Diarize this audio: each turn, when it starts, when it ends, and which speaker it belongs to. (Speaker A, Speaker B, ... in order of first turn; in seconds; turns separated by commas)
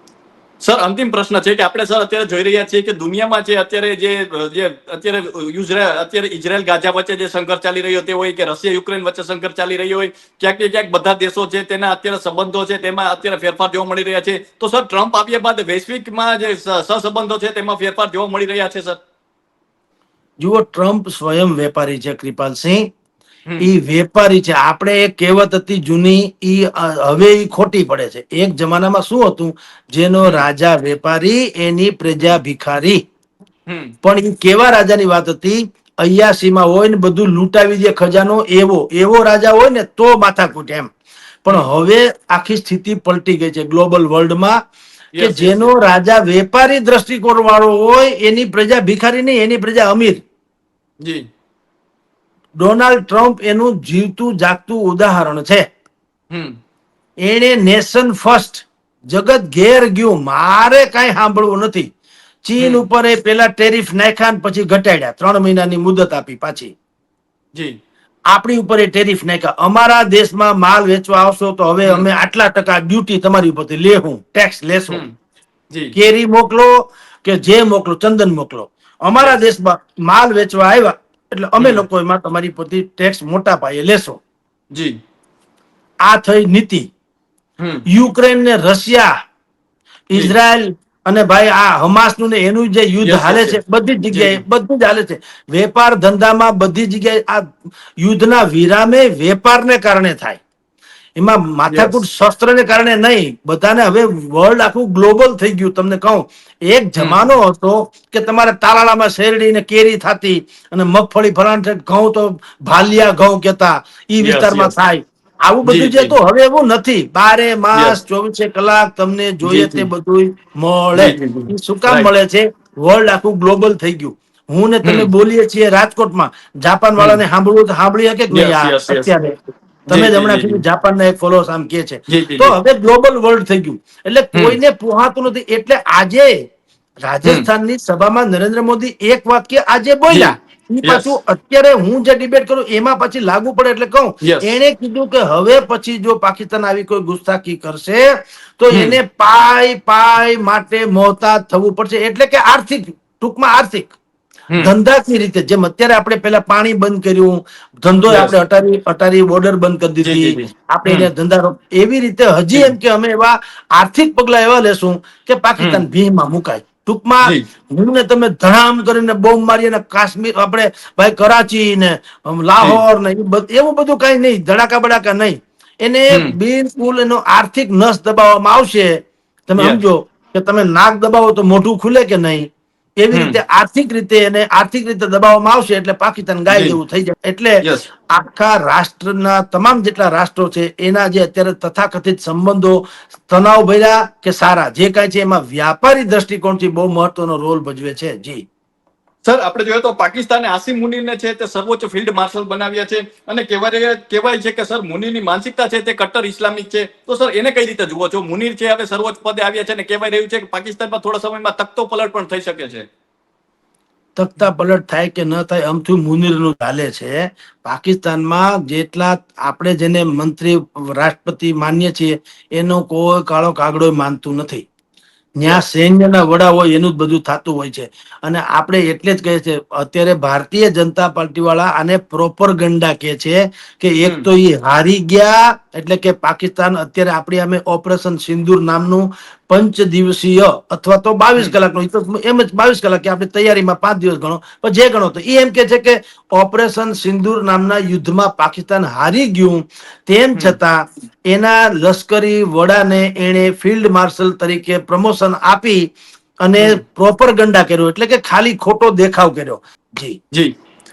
Speaker A: 0.6-19.0, Speaker B: 20.4-22.9, Speaker B: 23.6-33.0, Speaker A: 33.7-34.0, Speaker B: 34.0-40.9, Speaker B: 41.4-44.6, Speaker A: 45.1-45.7, Speaker B: 45.2-50.2, Speaker B: 52.6-55.6, Speaker A: 56.3-56.6, Speaker B: 57.2-61.9, Speaker B: 62.5-66.7, Speaker B: 68.3-75.0, Speaker B: 75.9-84.2, Speaker A: 81.6-81.9, Speaker B: 86.0-86.9, Speaker A: 87.6-87.8, Speaker B: 87.9-89.1, Speaker B: 90.1-97.4, Speaker A: 93.0-93.6, Speaker A: 94.1-94.4, Speaker B: 98.0-100.4, Speaker B: 101.2-129.4, Speaker A: 101.7-102.0, Speaker A: 107.0-107.4, Speaker A: 114.2-114.8, Speaker A: 115.6-116.1, Speaker A: 119.4-119.9, Speaker A: 121.0-122.1, Speaker A: 124.8-125.1, Speaker A: 127.0-127.2, Speaker A: 128.3-129.1, Speaker A: 129.9-130.6, Speaker B: 129.9-136.4, Speaker A: 132.1-132.5, Speaker B: 137.0-148.1, Speaker A: 140.8-141.1, Speaker A: 144.2-144.6, Speaker B: 148.6-153.9, Speaker A: 148.7-149.0, Speaker B: 154.6-182.5, Speaker A: 158.1-158.3, Speaker A: 160.0-161.1, Speaker A: 165.6-165.8, Speaker B: 183.0-198.4, Speaker A: 183.1-183.4, Speaker A: 186.5-186.8, Speaker A: 187.6-187.9, Speaker A: 199.2-212.9, Speaker B: 214.2-224.7, Speaker B: 225.4-255.9, Speaker B: 256.4-260.2